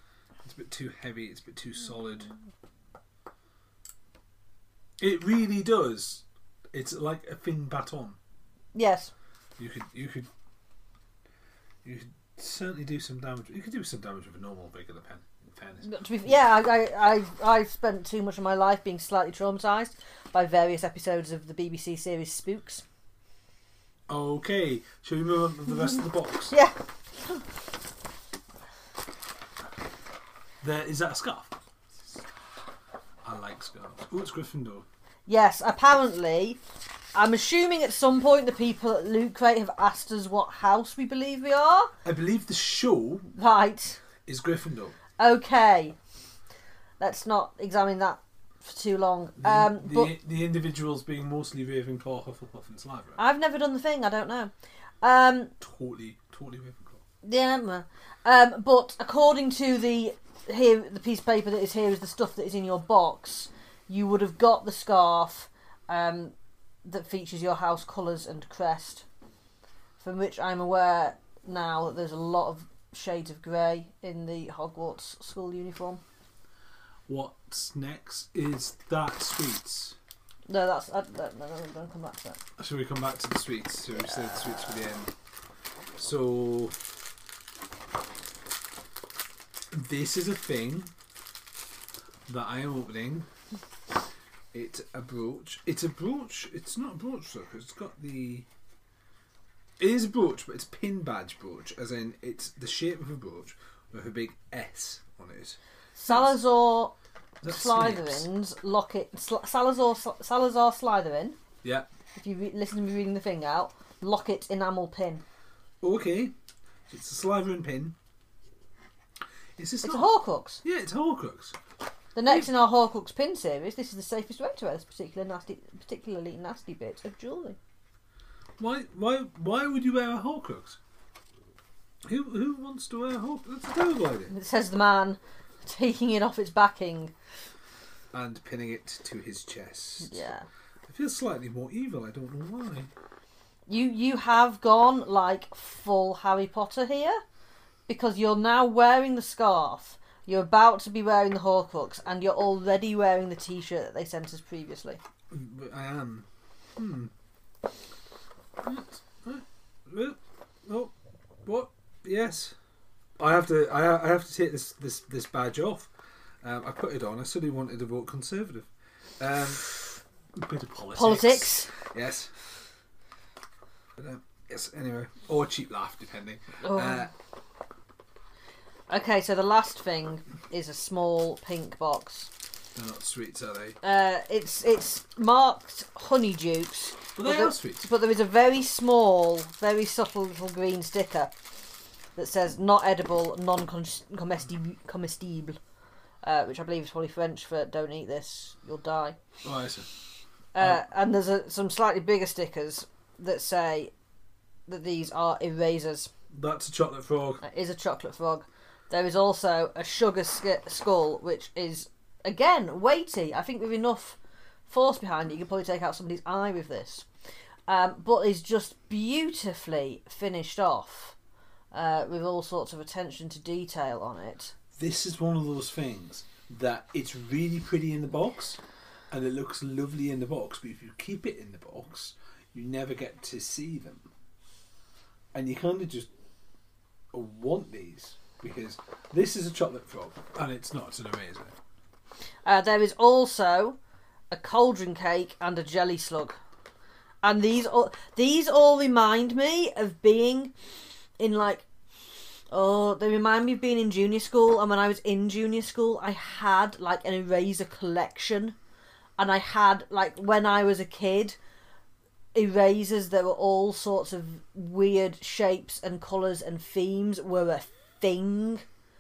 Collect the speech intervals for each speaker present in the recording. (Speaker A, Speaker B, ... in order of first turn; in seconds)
Speaker A: 0.4-2.3, 5.0-8.2, 9.6-10.3, 11.8-16.3, 24.1-26.5, 30.6-31.5, 33.2-34.9, 42.0-43.3, 44.3-45.0, 49.4-53.2, 55.6-57.0, 77.1-80.0, 82.6-85.1, 86.0-86.8, 89.7-90.9, 92.3-93.3, 94.5-98.5, 99.8-106.4, 107.4-108.3, 115.8-116.3, 116.9-118.0, 119.6-120.1, 120.6-121.6, 128.6-130.8, 132.1-134.3, 138.1-140.2, 140.9-142.9, 155.3-157.1, 158.6-160.9, 161.4-162.6, 163.2-165.9, 166.4-168.7, 169.2-169.7, 170.3-172.3, 174.0-177.1, 182.8-183.8, 187.2-187.9, 199.4-199.9, 200.6-200.8, 206.3-207.4, 224.8-228.6, 229.1-234.1, 235.3-236.1, 237.1-241.6
Speaker B: 8.7-9.1, 15.8-22.8, 26.5-27.4, 35.3-36.6, 37.1-41.9, 43.3-44.0, 45.2-46.0, 47.0-50.1, 53.2-55.5, 57.2-69.1, 70.0-76.0, 80.5-82.4, 106.0-111.4, 112.2-115.2, 119.8-120.6, 122.1-127.6, 134.3-137.1, 140.0-140.5, 143.7-147.2, 147.9-155.0, 170.9-171.7, 176.6-177.1, 178.9-182.3, 183.8-191.3, 192.2-195.6, 196.2-199.2, 200.5-203.9, 204.7-206.1, 207.4-217.1, 217.7-221.2, 221.7-224.5, 242.4-243.8, 244.3-246.4, 247.2-250.5, 251.2-251.7, 252.5-258.6, 259.2-261.4, 262.3-268.7